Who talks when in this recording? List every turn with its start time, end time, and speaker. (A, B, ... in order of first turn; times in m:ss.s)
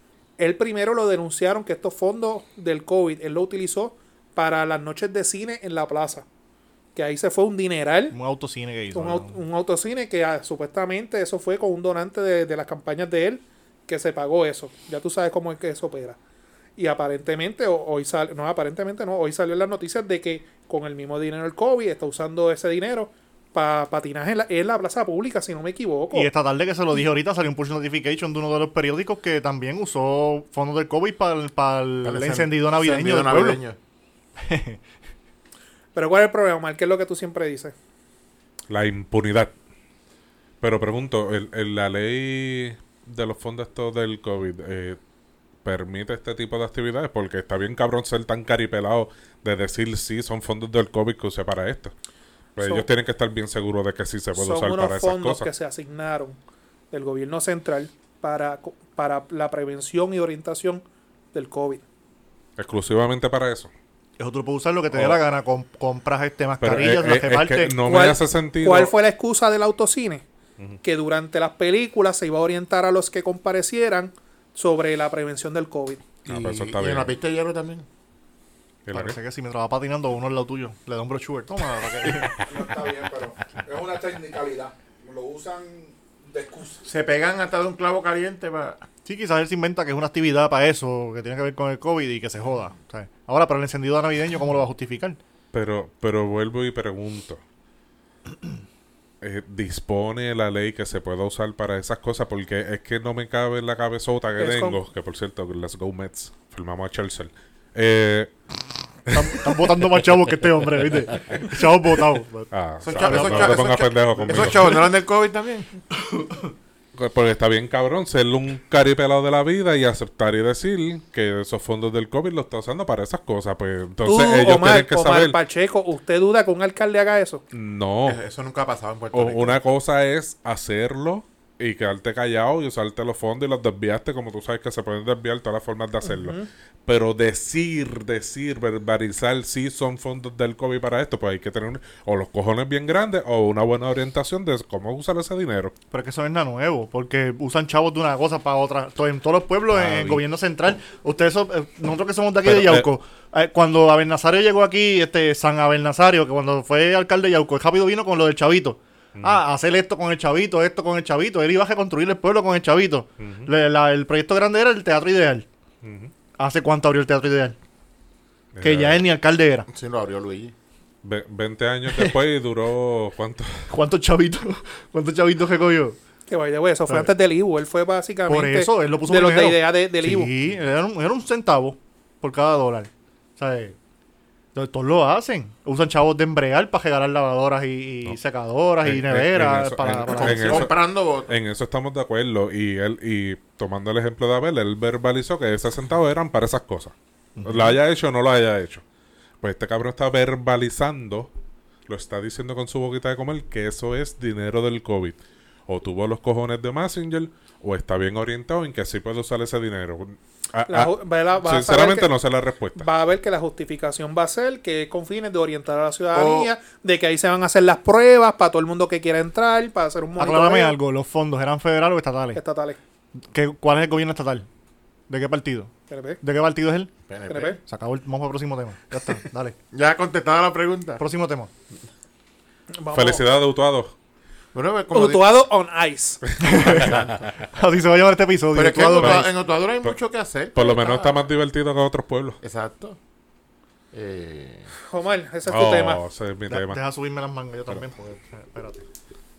0:00.4-0:06.3 A
0:07.0-0:08.2 A
0:08.1-0:09.4 B
0:08.9-0:16.2 A
0:16.8-0:26.3 A
0:26.1-0:33.6 B
0:32.0-0:33.8 C
0:34.4-0:34.8 B
0:36.0-0:37.7 A
0:38.7-0:39.5 D
0:40.6-0:45.0 D
0:45.6-0:51.9 D
0:52.6-0:55.5 D
0:52.6-0:52.9 A
0:54.4-0:56.4 A
0:56.9-1:01.8 A
1:02.6-1:03.7 D
1:04.2-1:07.7 B
1:04.9-1:05.2 D
1:06.6-1:08.9 D
1:07.8-1:10.2 A
1:10.8-1:16.0 A
1:16.3-1:17.9 C
1:16.3-1:17.1 D
1:18.9-1:19.2 D
1:18.9-1:22.4 B
1:22.4-1:26.8 E
1:26.8-1:28.8 C
1:29.0-1:35.2 B
1:35.5-1:37.4 D
1:39.2-1:48.3 D
1:44.4-1:44.8 A
1:49.1-1:49.7 D
1:49.1-1:53.7 B
1:52.5-1:54.9 D
1:52.8-1:55.7 C
1:54.2-1:54.5 B
1:57.0-2:05.4 D
2:04.0-2:07.4 A
2:07.5-2:08.2 D
2:08.0-2:09.6 C
2:09.1-2:25.7 D
2:16.0-2:16.5 A
2:25.9-2:45.4 B
2:29.7-2:30.2 D
2:32.4-2:32.9 D
2:39.1-2:39.4 D
2:43.2-2:43.5 D
2:45.8-2:46.1 D
2:46.4-2:47.6 B
2:48.5-2:49.1 D
2:48.6-2:49.7 B
2:49.7-2:50.5 C
2:51.0-2:53.7 D
2:53.7-2:56.0 B
2:56.3-3:00.3 A
2:58.3-3:03.8 B
3:04.5-3:10.7 B
3:08.8-3:10.7 D
3:10.0-3:11.3 C
3:11.3-3:18.8 D
3:17.4-3:17.8 B
3:19.4-3:21.3 D
3:21.9-3:32.9 D
3:30.7-3:32.1 A
3:32.8-3:40.8 A
3:36.1-3:36.5 C
3:40.2-3:42.4 B
3:42.3-3:42.8 A
3:43.3-3:44.4 B
3:45.1-3:46.9 B
3:45.9-3:46.2 A
3:47.1-3:47.6 C
3:47.3-3:47.6 A
3:47.6-3:49.6 B
3:49.7-3:51.0 C
3:51.0-3:51.5 B
3:52.8-3:53.2 A
3:52.9-3:53.9 D
3:54.5-3:55.4 C
3:54.9-3:56.2 A
3:56.4-3:59.3 B
3:56.4-3:57.1 D
3:56.7-3:57.2 C
3:58.5-4:01.1 C
3:59.0-3:59.2 D
4:00.6-4:02.4 D
4:02.4-4:03.0 C
4:03.9-4:04.7 C
4:04.9-4:06.0 A
4:05.5-4:06.8 D
4:06.5-4:08.8 B